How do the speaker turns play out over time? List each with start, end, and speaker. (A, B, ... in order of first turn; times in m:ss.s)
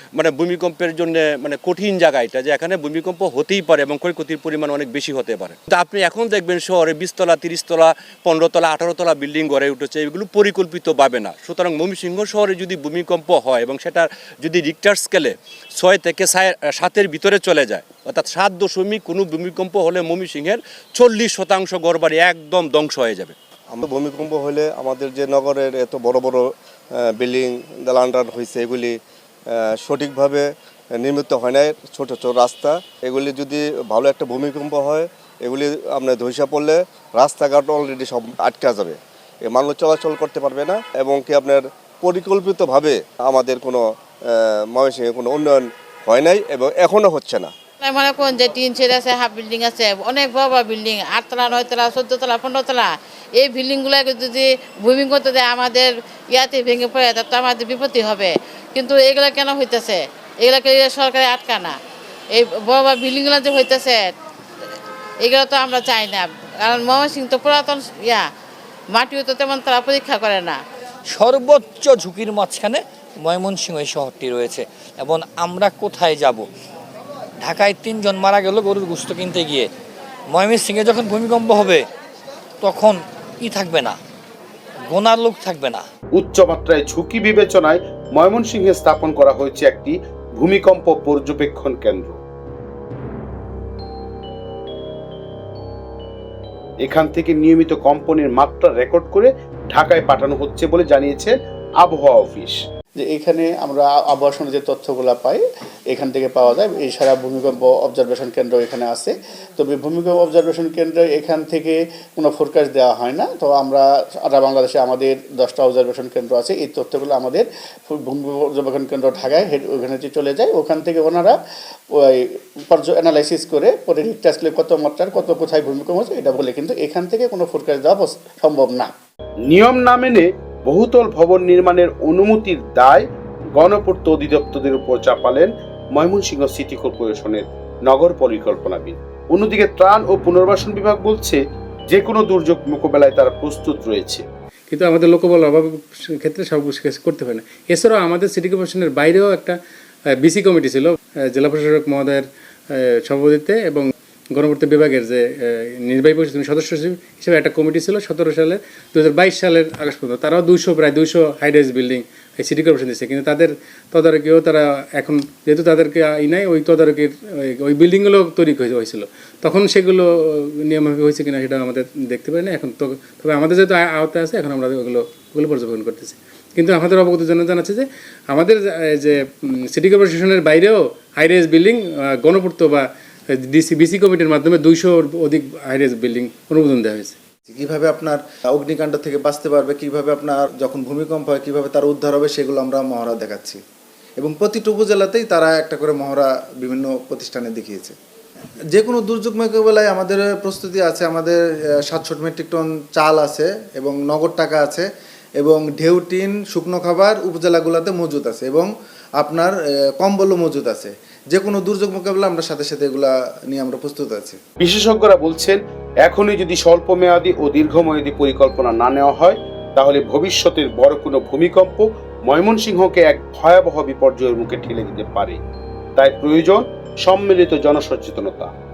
0:00.2-0:23.3 A
0:23.7-0:26.5 B
0:27.1-0:29.0 B
0:29.8-0:43.8 B
0:44.7-0:47.5 B
0:47.8-1:01.8 C
1:02.3-1:04.1 C
1:05.2-1:08.3 C
1:08.9-1:10.6 C
1:11.1-1:16.5 D
1:17.4-1:19.7 D
1:20.3-1:21.9 D
1:22.6-1:24.0 D
1:24.9-1:25.9 D
1:26.2-1:32.2 E
1:36.8-1:42.6 E
1:43.0-2:01.4 F
2:01.9-2:08.9 F
2:09.5-2:13.0 E
2:13.6-2:24.2 E
2:24.7-3:07.2 G
3:07.5-3:13.6 H
3:14.2-3:18.0 H
3:18.7-3:24.9 H
3:25.4-3:34.4 H
3:34.6-3:45.4 E
3:46.0-3:48.5 E